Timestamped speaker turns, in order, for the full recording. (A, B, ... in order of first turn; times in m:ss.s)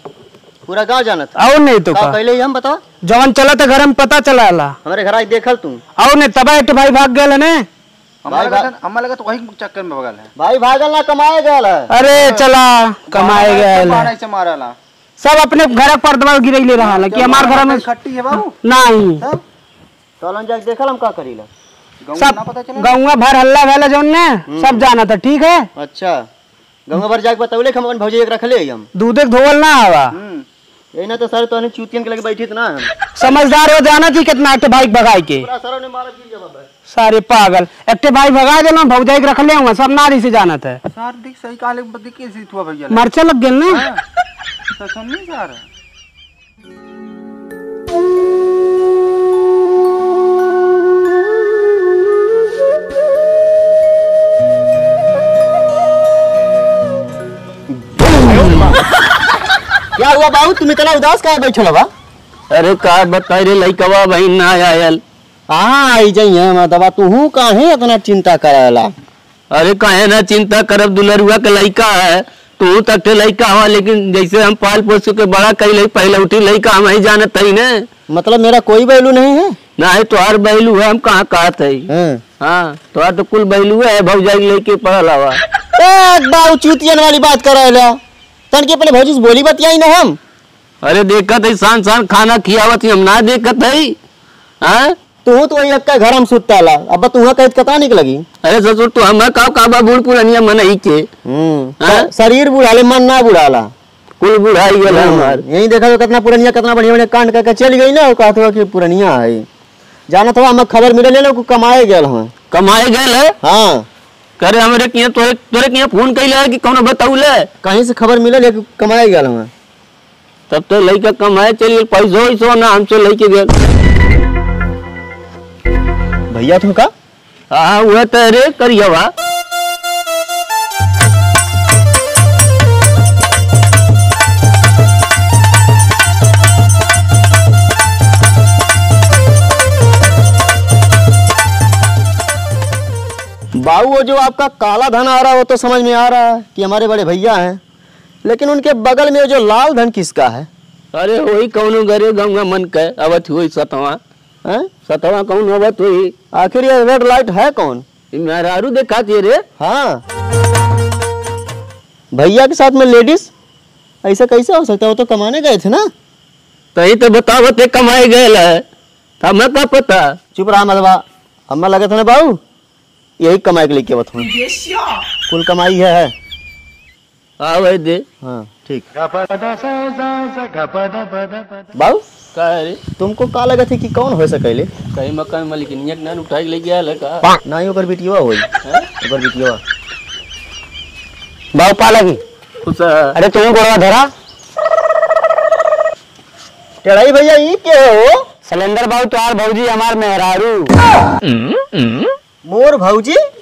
0:00.7-0:01.3 A
0:01.4-0:02.2 B
0:01.9-0:02.8 A
0:03.0-0:04.8 B
0:04.8-0:05.8 A
0:06.0-0:07.6 B
0:08.2-0:10.3 C
0:08.3-0:08.7 A
0:10.4-0:11.9 A
0:11.9-0:14.1 B
0:12.1-0:12.5 C
0:13.1-0:14.8 C
0:15.2-0:19.2 B
0:16.8-0:18.5 C
0:20.2-0:21.5 A
0:22.0-0:23.0 C
0:22.2-0:25.7 B
0:24.5-0:24.9 A
0:25.8-0:26.2 A
0:26.9-0:28.9 A
0:28.9-0:30.1 B
0:30.1-0:30.4 C
0:30.9-0:32.9 A
0:33.2-0:35.5 B
0:35.4-0:36.7 A
0:36.9-0:40.8 B
0:40.9-0:43.1 C
0:42.9-0:43.8 B
0:43.7-0:44.0 C
0:44.8-0:45.6 C
0:57.9-0:58.7 A
1:00.0-1:01.9 A
1:02.5-1:05.0 D
1:05.5-1:08.9 A
1:09.5-1:17.9 D
1:18.1-1:19.6 A
1:19.8-1:21.9 D
1:21.9-1:22.2 A
1:22.4-1:25.4 D
1:25.7-1:28.0 A
1:28.5-1:30.2 A
1:30.8-1:34.0 D
1:34.6-1:34.9 D
1:35.2-1:38.2 A
1:38.4-1:41.1 D
1:41.2-1:43.7 A
1:41.8-1:42.1 D
1:44.2-1:45.4 D
1:44.8-1:49.4 A
1:50.1-1:52.3 A
1:52.5-1:53.3 D
1:53.4-1:53.9 A
1:54.4-1:57.5 D
1:57.6-1:59.5 A
2:00.5-2:03.5 D
2:06.3-2:06.9 A
2:07.5-2:09.1 D
2:23.6-2:27.6 A
2:28.2-2:30.5 A
2:30.9-2:34.0 D
2:34.4-2:34.7 A
2:34.8-2:36.1 D
2:36.3-2:37.8 A
2:38.1-2:39.4 D
2:39.6-2:40.0 A
2:42.1-2:43.3 A
2:44.0-2:45.9 A
2:46.7-2:48.6 D
2:49.2-2:50.2 D
2:50.3-2:52.4 A
2:53.2-2:54.3 A
2:55.3-2:56.1 A
2:57.4-2:58.0 D
2:58.2-2:58.9 A
2:59.2-3:01.3 B
3:01.7-3:02.0 A
3:02.3-3:02.8 D
3:03.0-3:04.7 A
3:04.9-3:07.3 D
3:07.4-3:08.5 A
3:09.0-3:09.6 A
3:11.5-3:12.2 B
3:12.6-3:13.2 D
3:13.2-3:14.1 B
3:16.8-3:18.3 A
3:18.4-3:20.7 B
3:21.2-3:22.1 D
3:22.4-3:23.2 A